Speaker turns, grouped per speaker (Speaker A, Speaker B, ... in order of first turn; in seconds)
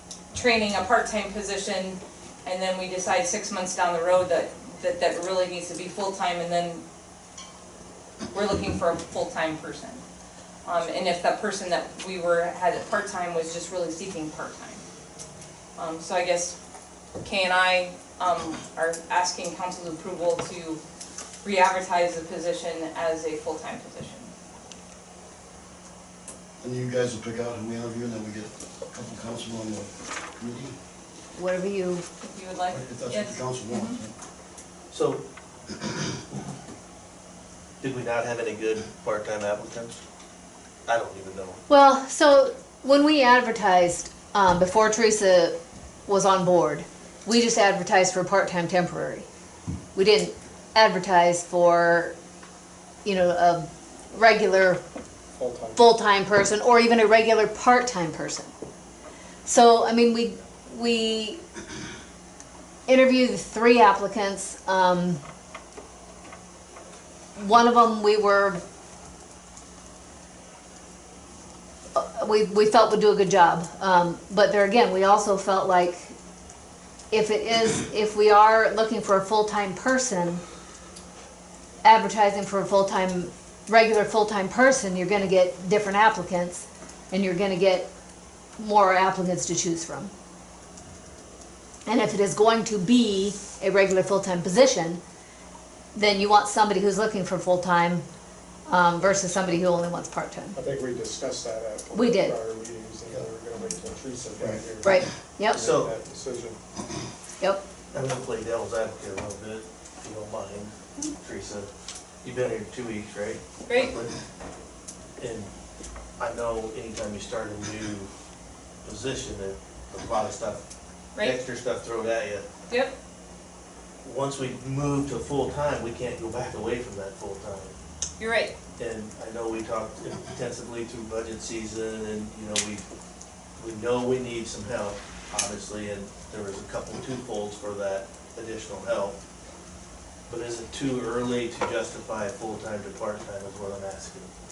Speaker A: 0.3-6.8, 8.3-10.0, 10.6-14.8, 15.8-16.6, 17.2-20.8, 21.4-24.3, 32.2-34.0, 113.7-114.0, 121.2-121.4, 128.2-128.5
Speaker B: 26.6-30.7, 32.7-34.1, 104.4-104.6
Speaker C: 31.3-32.0, 41.7-45.5, 46.1-49.2, 49.9-52.1, 53.0-54.8, 55.8-58.5, 59.4-61.4, 62.9-65.2, 67.3-68.6, 72.0-76.1, 77.1-80.4, 81.8-87.9, 88.6-90.1, 91.8-95.0, 95.9-98.0, 98.7-100.6, 101.9-102.3, 104.8-105.6
Speaker D: 34.9-35.2, 37.8-40.0, 40.9-41.6, 105.5-105.9, 107.9-111.7, 112.2-114.1, 115.2-115.5, 116.2-118.1, 118.8-120.6, 121.2-122.4, 124.0-127.8, 128.8-132.8, 133.6-139.2, 140.3-144.3
Speaker E: 55.4-55.8, 99.1-99.5, 100.5-106.6